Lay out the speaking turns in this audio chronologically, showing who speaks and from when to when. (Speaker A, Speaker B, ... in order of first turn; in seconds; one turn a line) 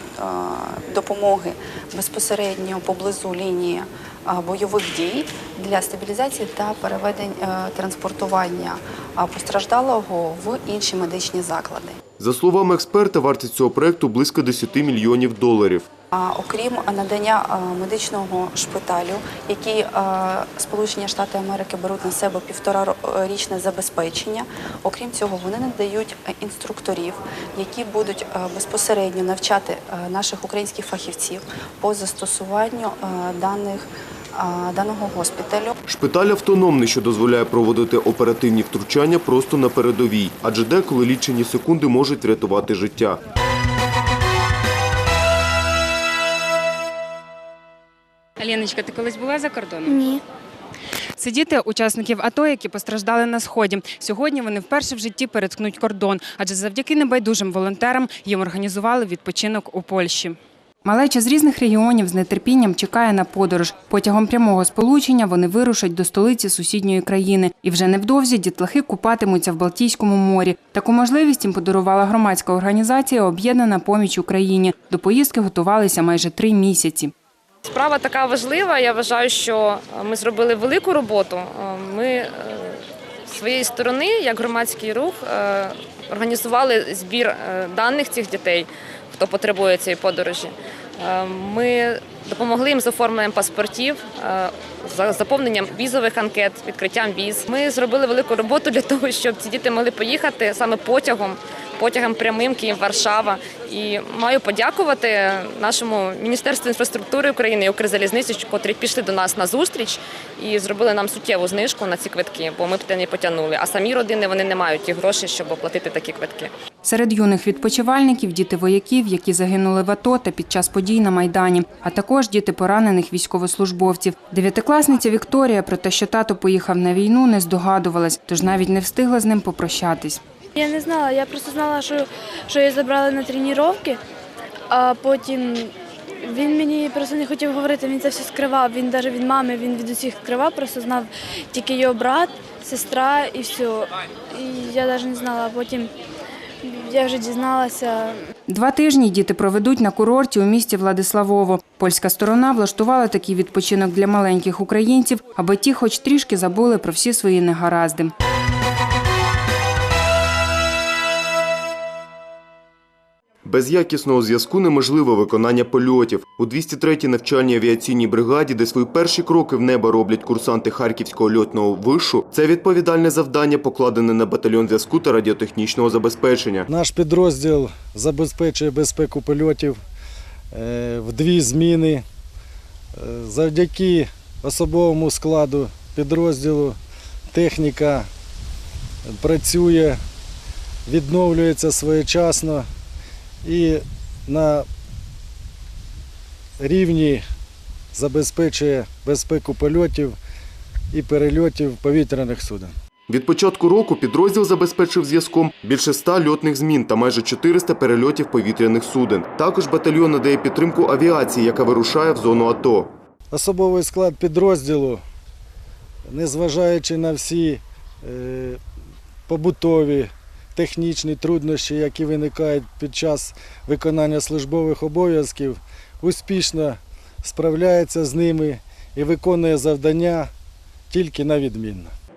Speaker A: 0.2-12.0
Speaker B: 12.2-15.9
Speaker A: 16.1-35.8
Speaker B: 35.9-43.2
Speaker C: 49.1-49.9
Speaker D: 49.9-50.2
Speaker C: 51.2-77.1
Speaker E: 77.7-116.5
Speaker C: 116.8-130.2
Speaker D: 130.6-134.0
Speaker D: 134.7-145.9
Speaker D: 146.6-148.2
Speaker C: 148.5-158.1
Speaker B: 163.4-176.7
Speaker F: 176.7-179.8
Speaker F: 180.5-182.0
Speaker F: 183.0-186.8
Speaker F: 187.3-188.1
Speaker F: 189.1-190.0
Speaker F: 190.9-192.7
Speaker F: 193.4-194.7
Speaker F: 196.6-197.2
Speaker F: 197.9-200.2
Speaker F: 200.9-202.7
Speaker B: 203.1-212.9
Speaker F: 213.3-215.0
Speaker F: 216.1-218.6
Speaker F: 219.3-230.3
Speaker F: 230.9-231.9